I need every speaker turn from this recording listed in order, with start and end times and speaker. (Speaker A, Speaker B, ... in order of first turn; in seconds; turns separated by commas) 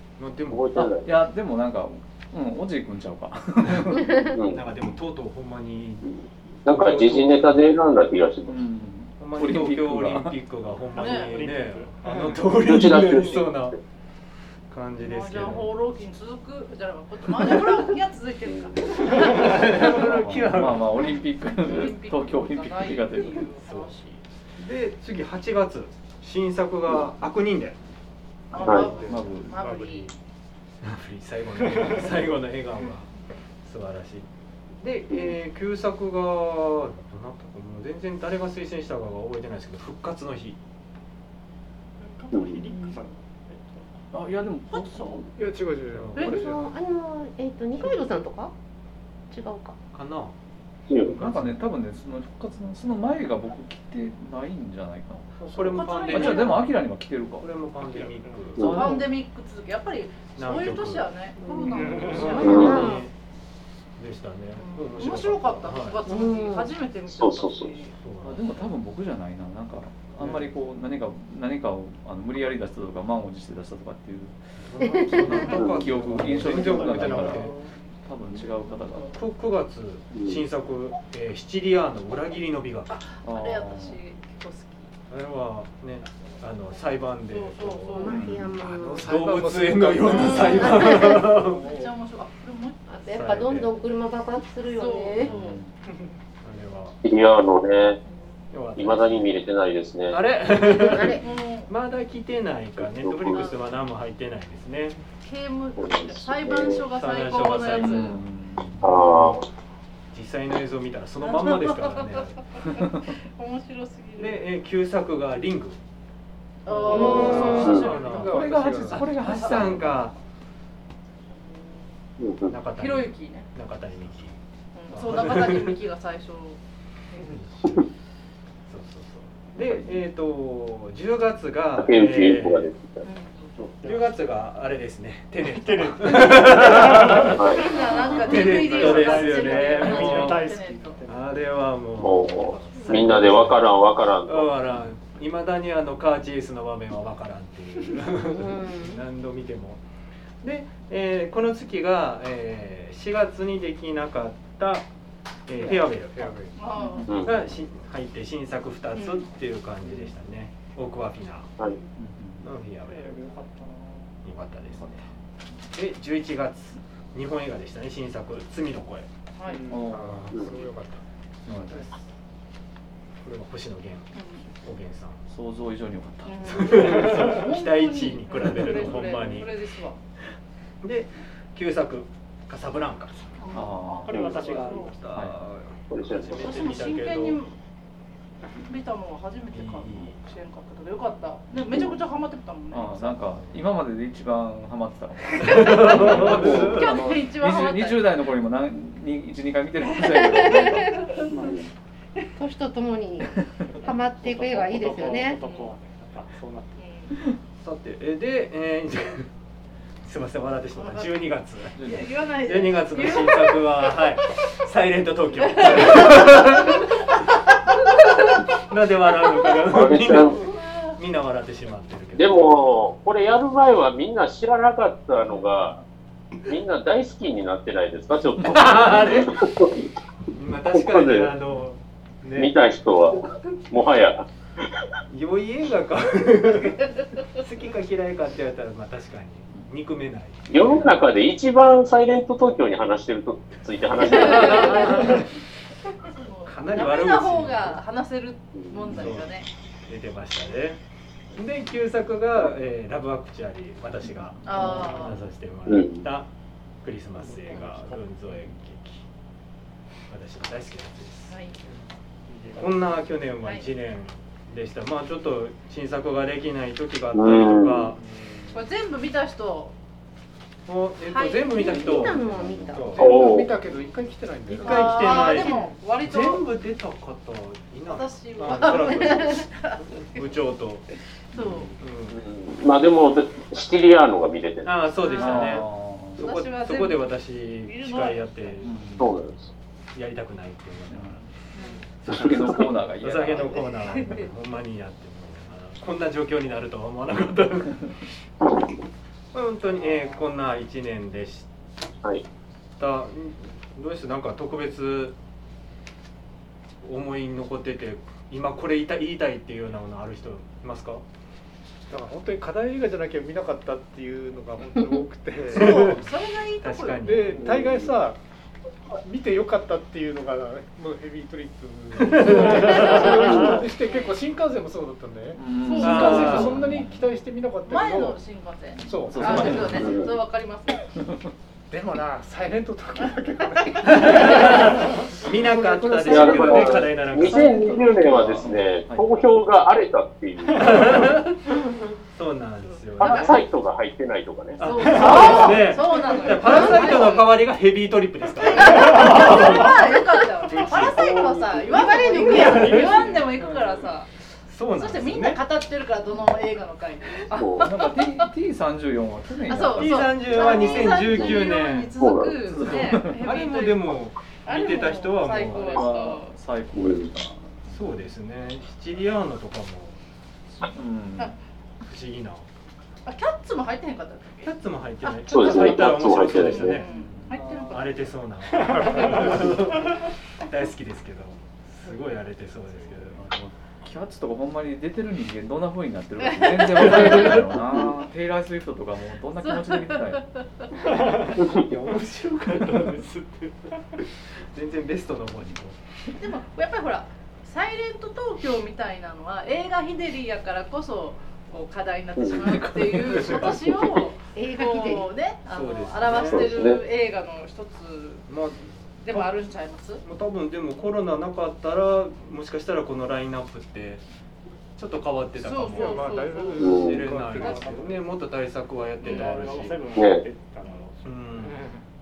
Speaker A: 0.2-0.8, Speaker B: 0.5-1.1, Speaker C: 0.7-4.3, Speaker B: 4.3-4.6, Speaker A: 4.5-7.7, Speaker B: 6.7-8.6, Speaker C: 8.5-10.4, Speaker A: 9.2-13.8, Speaker D: 10.9-11.5, Speaker E: 10.9-11.9, Speaker B: 12.6-13.7, Speaker A: 14.7-15.7, Speaker D: 15.0-19.9, Speaker B: 18.4-18.7, Speaker A: 19.1-21.1, Speaker C: 19.9-23.5, Speaker D: 21.4-24.2, Speaker A: 23.6-27.8, Speaker D: 28.5-30.1, Speaker F: 28.6-30.1, Speaker B: 28.6-28.9, Speaker C: 29.0-29.7, Speaker A: 30.8-33.1, Speaker A: 33.6-34.3, Speaker A: 34.8-40.6, Speaker D: 42.0-43.0, Speaker E: 42.2-43.9, Speaker B: 42.3-42.6, Speaker C: 44.1-45.3, Speaker D: 44.7-45.3, Speaker F: 45.4-46.8, Speaker A: 46.0-46.4, Speaker C: 46.1-46.5, Speaker D: 46.2-46.5, Speaker G: 46.5-48.5, Speaker G: 49.3-49.8, Speaker A: 49.9-50.3, Speaker B: 50.9-51.2, Speaker A: 51.0-51.6, Speaker C: 51.0-55.4, Speaker A: 55.4-56.7, Speaker D: 55.6-56.6, Speaker C: 56.1-57.5, Speaker A: 57.4-58.7, Speaker E: 57.9-58.4, Speaker B: 58.6-58.9, Speaker C: 58.6-59.2, Speaker D: 58.7-63.0, Speaker A: 60.4-61.1, Speaker E: 61.7-62.4, Speaker A: 61.8-63.1, Speaker B: 62.4-62.8, Speaker G: 62.4-63.0, Speaker A: 64.0-66.0, Speaker D: 64.6-68.0, Speaker G: 66.1-66.7, Speaker B: 67.1-67.8, Speaker A: 68.0-68.7, Speaker C: 68.2-74.4, Speaker F: 70.2-70.5, Speaker F: 74.7-77.7, Speaker A: 74.8-77.6, Speaker C: 75.2-77.5, Speaker B: 75.5-75.8, Speaker C: 78.0-79.1, Speaker F: 78.3-79.0, Speaker A: 79.1-83.0, Speaker B: 80.1-80.4, Speaker D: 82.9-84.9, Speaker C: 83.2-84.0, Speaker A: 85.1-91.6, Speaker D: 87.2-88.2, Speaker G: 88.0-89.1, Speaker C: 88.0-88.6, Speaker F: 88.7-91.9, Speaker D: 90.0-93.5, Speaker G: 90.6-91.2, Speaker G: 92.9-95.2, Speaker A: 93.1-93.8, Speaker D: 94.6-95.6, Speaker C: 95.2-95.7, Speaker A: 96.4-97.0, Speaker B: 97.0-98.0, Speaker D: 98.1-98.4, Speaker A: 98.5-99.4, Speaker B: 98.8-100.2, Speaker A: 100.1-105.0, Speaker G: 100.6-101.2, Speaker D: 100.7-101.7, Speaker B: 102.8-103.5, Speaker D: 103.3-103.7, Speaker D: 105.2-108.2, Speaker B: 105.8-106.8, Speaker A: 106.9-108.2, Speaker C: 107.7-108.9, Speaker B: 108.8-109.5, Speaker A: 108.9-109.5, Speaker A: 110.1-112.4, Speaker D: 111.2-114.4, Speaker A: 114.2-115.8, Speaker D: 116.7-119.6, Speaker F: 116.7-119.1, Speaker A: 116.9-120.2, Speaker C: 117.0-120.1, Speaker B: 117.5-118.0, Speaker D: 121.3-122.0, Speaker B: 122.2-122.5, Speaker A: 122.5-124.4, Speaker D: 122.8-123.5, Speaker D: 124.8-126.6, Speaker A: 124.9-125.8, Speaker A: 127.3-127.8, Speaker A: 128.7-132.7, Speaker C: 129.6-130.0, Speaker B: 131.8-133.1, Speaker D: 133.0-133.7, Speaker A: 133.8-140.4, Speaker E: 135.6-141.3, Speaker D: 136.9-141.0, Speaker B: 137.4-137.7, Speaker A: 141.1-149.8, Speaker B: 142.0-144.5, Speaker E: 142.5-142.9, Speaker G: 148.3-149.0, Speaker A: 150.4-154.8, Speaker A: 155.5-156.4, Speaker F: 155.6-156.8, Speaker D: 156.6-157.1, Speaker C: 156.8-157.5, Speaker A: 157.1-161.6, Speaker B: 157.1-157.3, Speaker D: 158.9-159.2, Speaker C: 162.0-162.5, Speaker A: 162.4-163.3, Speaker E: 162.8-164.1, Speaker A: 164.2-165.0, Speaker C: 164.7-165.1, Speaker A: 165.7-169.1, Speaker D: 169.4-169.7, Speaker C: 169.7-170.4, Speaker F: 169.7-171.0, Speaker C: 171.5-171.8, Speaker A: 171.7-172.0, Speaker A: 173.2-174.1, Speaker D: 174.1-174.5, Speaker A: 174.6-175.2, Speaker C: 175.3-177.2, Speaker D: 176.2-180.0, Speaker A: 176.4-179.5, Speaker C: 178.5-179.2, Speaker A: 180.8-183.3, Speaker D: 183.4-184.9, Speaker C: 183.5-184.2, Speaker E: 184.0-185.0, Speaker B: 184.1-184.5, Speaker A: 184.3-187.4, Speaker C: 185.1-185.4, Speaker B: 185.9-186.5, Speaker D: 186.3-187.6, Speaker D: 188.5-193.2, Speaker A: 189.5-190.2, Speaker B: 191.7-192.0, Speaker C: 192.7-201.6, Speaker D: 195.4-198.2, Speaker A: 195.4-196.9, Speaker D: 200.3-201.3, Speaker B: 201.3-201.7, Speaker G: 202.4-205.4, Speaker E: 203.7-206.8, Speaker D: 205.4-205.8, Speaker D: 206.8-207.1, Speaker A: 207.6-209.3, Speaker A: 210.0-216.9, Speaker D: 210.7-211.1, Speaker C: 211.8-212.1, Speaker D: 211.8-214.0, Speaker D: 215.4-216.9, Speaker A: 217.6-222.6, Speaker B: 219.7-220.4, Speaker D: 220.3-221.0, Speaker B: 222.2-225.8, Speaker B: 226.5-229.7, Speaker A: 228.5-229.4, Speaker C: 228.6-229.3, Speaker A: 230.3-232.6, Speaker B: 230.7-231.3, Speaker B: 232.4-234.8, Speaker A: 235.1-241.1, Speaker B: 240.5-245.2, Speaker D: 244.0-245.2, Speaker A: 244.5-245.2, Speaker D: 246.0-249.5, Speaker A: 246.5-247.8, Speaker B: 248.5-249.0, Speaker A: 248.9-249.3, Speaker A: 249.9-250.8, Speaker A: 251.3-256.3, Speaker C: 254.1-254.7, Speaker D: 254.4-255.2, Speaker B: 255.7-256.0, Speaker A: 256.8-259.0, Speaker F: 257.2-258.4, Speaker A: 260.1-261.4, Speaker D: 261.3-261.6, Speaker E: 262.3-262.5, Speaker A: 262.6-268.0, Speaker D: 263.4-263.7, Speaker B: 267.1-267.9, Speaker F: 267.9-268.6, Speaker D: 268.5-269.8, Speaker A: 270.7-273.2, Speaker D: 271.0-271.9, Speaker G: 271.6-272.8, Speaker C: 271.6-272.9, Speaker F: 272.9-275.2, Speaker B: 273.0-273.6, Speaker A: 274.5-280.9, Speaker D: 274.5-276.4, Speaker G: 275.2-275.6, Speaker D: 277.9-279.9, Speaker F: 278.5-279.1, Speaker D: 281.3-281.7, Speaker C: 281.4-281.7, Speaker A: 281.8-282.2, Speaker B: 282.1-284.8, Speaker A: 284.6-288.9, Speaker D: 285.0-285.6, Speaker C: 285.1-286.3, Speaker D: 286.2-288.5, Speaker C: 288.6-289.4, Speaker B: 289.0-289.5, Speaker A: 289.9-291.2, Speaker C: 290.9-291.3, Speaker D: 291.6-291.8, Speaker A: 292.0-297.8, Speaker C: 292.1-293.6, Speaker B: 292.2-292.7, Speaker D: 293.4-294.3, Speaker A: 299.3-301.5, Speaker A: 302.8-305.1, Speaker A: 306.8-311.0, Speaker F: 311.9-316.0, Speaker D: 315.5-317.1, Speaker A: 315.5-316.1, Speaker A: 316.6-317.5, Speaker F: 317.0-318.2, Speaker B: 317.4-317.9, Speaker F: 318.9-328.2, Speaker A: 321.9-323.1, Speaker D: 322.2-324.3, Speaker C: 325.3-327.1, Speaker D: 325.6-326.6, Speaker A: 325.8-326.6, Speaker D: 327.7-331.1, Speaker F: 328.8-329.9, Speaker C: 329.0-330.0, Speaker B: 329.7-330.1, Speaker F: 331.7-337.9, Speaker A: 333.9-337.8, Speaker D: 333.9-334.4, Speaker B: 336.1-341.1, Speaker C: 337.2-339.3, Speaker A: 340.5-341.5, Speaker A: 342.1-343.3, Speaker B: 343.0-345.6, Speaker D: 343.0-343.4, Speaker A: 344.6-349.8, Speaker D: 344.6-347.4, Speaker D: 348.4-354.1, Speaker A: 350.5-351.2, Speaker B: 350.8-352.3, Speaker F: 352.1-353.1, Speaker A: 352.2-353.2, Speaker A: 354.5-355.4, Speaker D: 354.7-358.3, Speaker B: 357.4-357.7, Speaker C: 357.6-360.9, Speaker D: 359.5-366.3, Speaker A: 359.8-361.9, Speaker B: 360.5-361.5, Speaker B: 362.0-362.4, Speaker C: 362.4-363.2, Speaker A: 363.2-365.8, Speaker C: 365.3-368.1, Speaker B: 366.8-367.1, Speaker A: 367.7-370.0, Speaker C: 370.6-371.4, Speaker A: 371.8-372.5, Speaker D: 373.1-378.1, Speaker A: 374.4-376.9, Speaker B: 375.3-376.8, Speaker C: 376.8-377.4, Speaker A: 377.6-383.2, Speaker D: 378.7-379.0, Speaker F: 378.8-379.5, Speaker C: 383.1-390.3, Speaker D: 386.5-387.5, Speaker D: 389.4-390.7, Speaker A: 391.3-393.3, Speaker E: 392.7-393.0, Speaker A: 394.5-395.8, Speaker D: 396.2-408.3, Speaker B: 402.2-402.7, Speaker C: 402.8-403.2, Speaker A: 403.2-403.5, Speaker G: 404.4-405.1, Speaker A: 405.5-406.5, Speaker B: 406.1-406.8, Speaker A: 408.3-409.3, Speaker D: 409.0-410.0, Speaker A: 410.0-414.0, Speaker A: 414.8-419.9, Speaker D: 415.4-417.8, Speaker F: 415.7-418.1, Speaker B: 416.6-417.1, Speaker D: 419.0-419.5, Speaker E: 419.0-421.8, Speaker B: 419.9-420.2, Speaker A: 421.0-421.6